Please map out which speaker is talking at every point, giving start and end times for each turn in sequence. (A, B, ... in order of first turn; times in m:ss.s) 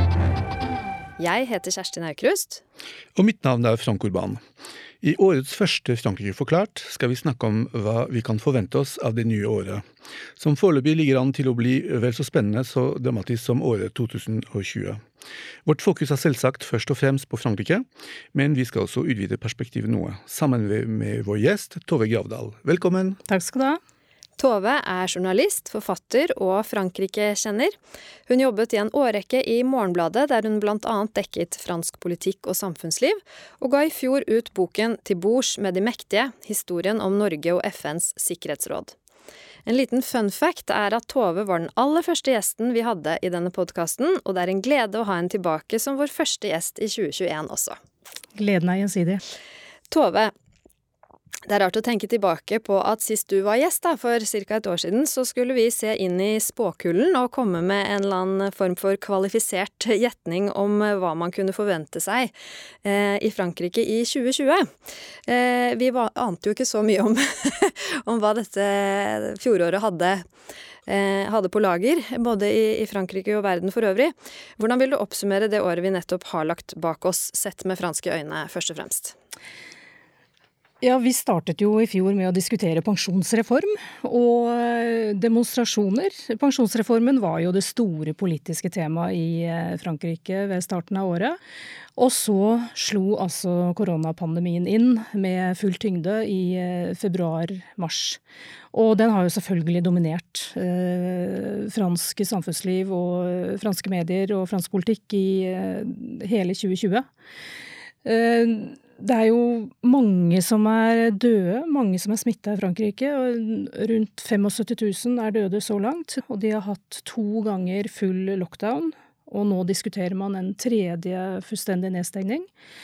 0:01.2-0:02.6 A
0:03.2-0:04.4 B
0:05.0-0:09.8 B
0:10.4-0:15.0 B
0:15.7-0:23.2 B
0:23.3-0:23.8 C
0:24.4-0:27.8 A
0:28.3-0:39.0 A
0:39.7-0:47.8 A
0:48.4-0:49.2 C
0:49.9-0:50.3 A
0:51.5-1:02.3 A
1:02.8-1:04.7 A
1:05.3-1:10.2 A
1:10.9-1:19.2 A
1:20.8-1:31.4 C
1:32.0-1:38.2 C
1:38.7-1:47.0 C
1:48.0-2:02.5 C